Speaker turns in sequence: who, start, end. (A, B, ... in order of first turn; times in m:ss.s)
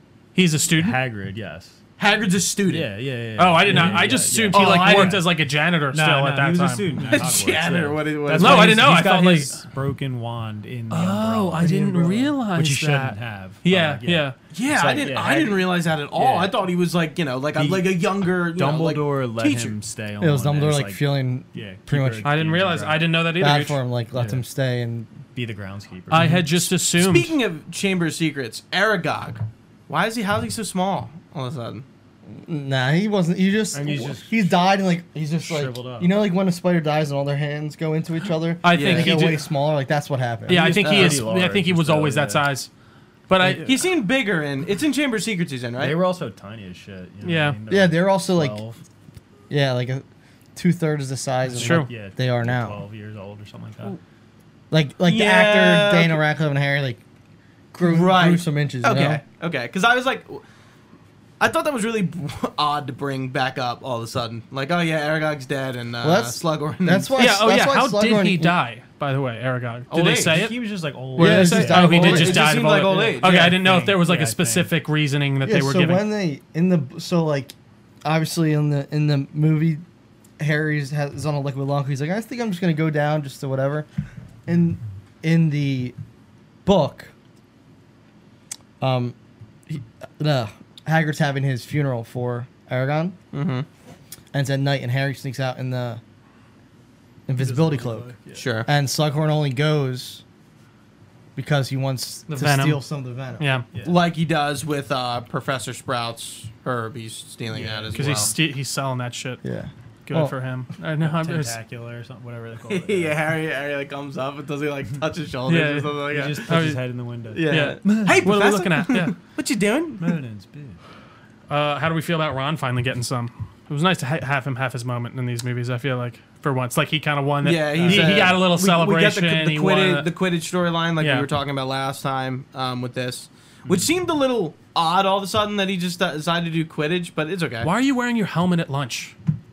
0:00.4-0:01.0 A
0:00.8-0:01.8 B
0:02.0-0:02.9 C
0:02.7-0:05.3 B
0:03.4-0:07.3 A
0:03.7-0:05.2 C
0:05.9-0:16.6 B
0:07.0-0:08.9 C
0:08.4-0:09.6 A
0:10.9-0:14.4 A
0:11.6-0:12.3 D
0:14.5-0:19.8 C
0:17.6-0:18.0 B
0:18.5-0:21.0 B
0:20.2-0:22.4 D
0:21.5-0:23.0 B
0:22.2-0:23.8 A
0:23.4-0:25.1 D
0:24.1-0:24.4 B
0:25.4-0:26.7 B
0:26.1-0:27.4 A
0:27.0-0:31.8 C
0:32.3-0:40.6 D
0:33.7-0:34.6 B
0:35.4-0:36.1 B
0:38.6-0:39.5 A
0:38.7-0:39.2 C
0:38.8-0:39.2 B
0:40.5-0:42.5 B
0:40.5-0:42.7 A
0:40.8-0:41.2 C
0:43.3-0:43.8 A
0:43.4-0:43.8 B
0:43.5-0:46.0 C
0:45.8-0:48.8 B
0:47.2-0:47.6 A
0:47.7-0:48.6 D
0:49.5-0:50.0 D
0:50.6-0:52.8 D
0:51.5-0:54.0 B
0:51.6-0:51.9 A
0:54.7-0:57.0 D
0:55.1-0:56.2 C
0:57.7-0:59.2 D
0:57.8-1:00.4 C
1:01.4-1:07.1 C
1:06.0-1:08.5 D
1:07.2-1:10.6 A
1:09.9-1:10.4 C
1:10.2-1:14.7 B
1:11.2-1:16.1 A
1:11.2-1:12.5 D
1:11.8-1:13.6 C
1:15.4-1:19.8 D
1:20.4-1:23.9 D
1:24.5-1:26.0 D
1:26.6-1:27.1 D
1:28.8-1:29.2 D
1:29.7-1:33.2 D
1:33.3-1:33.7 C
1:34.3-1:36.0 D
1:37.3-1:38.1 D
1:37.4-1:38.5 B
1:38.4-1:38.7 C
1:38.7-1:40.2 D
1:41.4-1:43.5 D
1:42.3-1:42.8 A
1:43.4-1:43.7 A
1:43.7-1:44.0 B
1:43.8-1:48.4 C
1:47.5-1:48.3 B
1:47.9-1:49.4 A
1:49.4-1:50.4 D
1:50.1-1:51.6 A
1:51.0-1:53.2 B
1:52.7-1:56.5 C
1:55.5-1:59.2 A
1:56.1-1:58.2 B
1:57.3-2:00.2 C
2:00.0-2:00.8 B
2:01.5-2:10.1 A
2:07.4-2:17.7 C
2:07.7-2:08.4 B
2:11.0-2:11.3 A
2:13.6-2:13.9 B
2:17.6-2:19.2 A